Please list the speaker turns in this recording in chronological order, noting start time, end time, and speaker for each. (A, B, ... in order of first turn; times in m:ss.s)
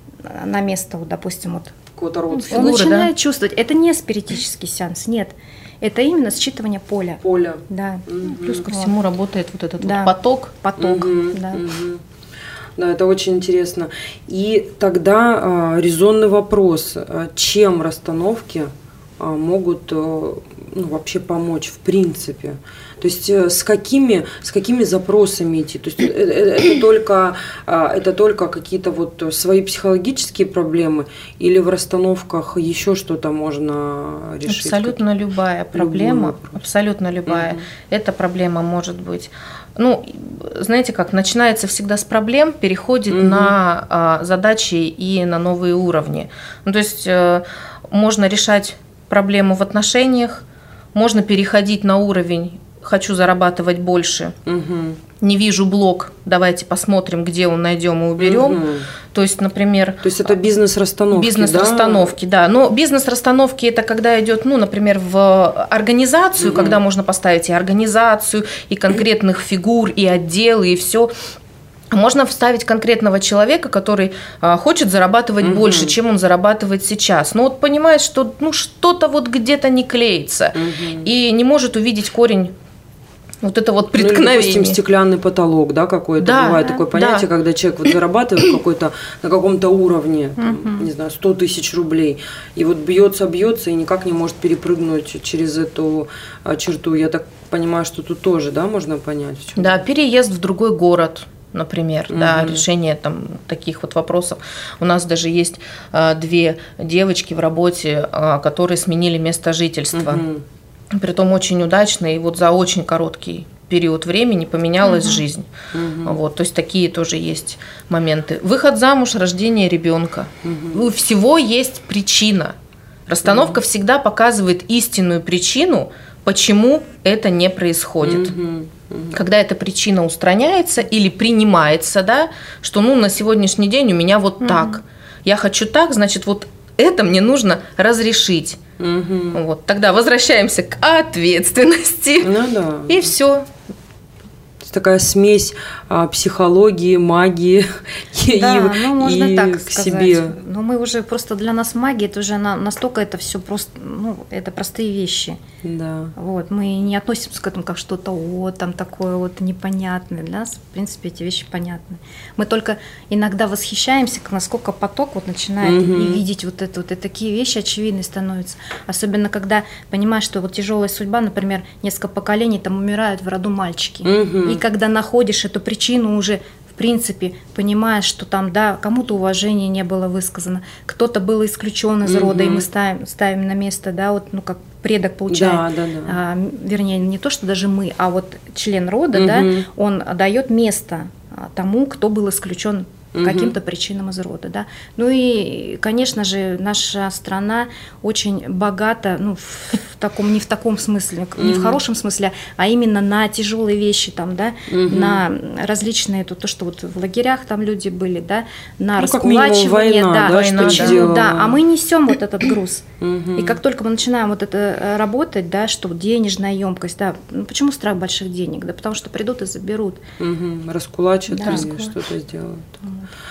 0:00.2-0:01.7 A
0:02.0-0:02.9 B
0:02.3-0:08.9 A
0:02.5-0:03.1 C
0:07.2-0:08.7 B
0:08.4-0:10.5 C
0:09.8-0:11.6 A
0:10.8-0:12.0 B
0:12.8-0:35.0 B
0:34.4-0:54.4 C
0:35.8-0:36.6 B
0:37.2-0:37.6 B
0:43.1-0:43.5 B
0:54.4-0:55.0 B
0:55.2-1:00.3 C
0:58.2-0:58.9 B
1:00.0-1:02.1 B
1:01.1-1:11.1 C
1:06.4-1:06.8 B
1:11.9-1:22.5 C
1:15.4-1:15.9 B
1:20.5-1:21.1 B
1:23.4-1:24.8 C
1:23.9-1:39.8 B
1:26.2-1:27.3 C
1:30.4-1:30.9 A
1:39.6-1:50.2 C
1:42.1-1:42.6 B
1:49.9-1:50.4 B
1:50.9-1:55.5 C
1:54.8-1:55.2 A
1:55.7-1:56.2 B
1:56.0-2:02.5 C
2:00.4-2:00.8 B
2:03.1-2:08.3 C
2:03.2-2:03.6 B
2:08.0-2:09.2 B
2:09.1-2:18.6 C
2:14.4-2:14.8 A
2:18.8-2:19.4 B
2:19.3-2:22.3 C
2:22.2-2:23.0 B
2:22.9-2:23.5 C
2:24.6-2:30.4 B
2:28.3-2:35.4 A
2:35.6-2:36.1 B
2:36.2-3:40.0 A
2:45.6-2:46.2 B
2:54.0-2:54.6 B
3:02.0-3:02.6 B
3:05.3-3:06.1 B
3:09.1-3:09.6 B
3:13.1-3:13.5 B
3:21.4-3:21.8 B
3:24.7-3:25.2 B
3:29.0-3:31.6 B
3:30.2-3:31.1 C
3:33.0-3:33.6 B
3:40.2-3:42.8 B
3:41.3-3:41.9 A
3:42.8-3:43.1 A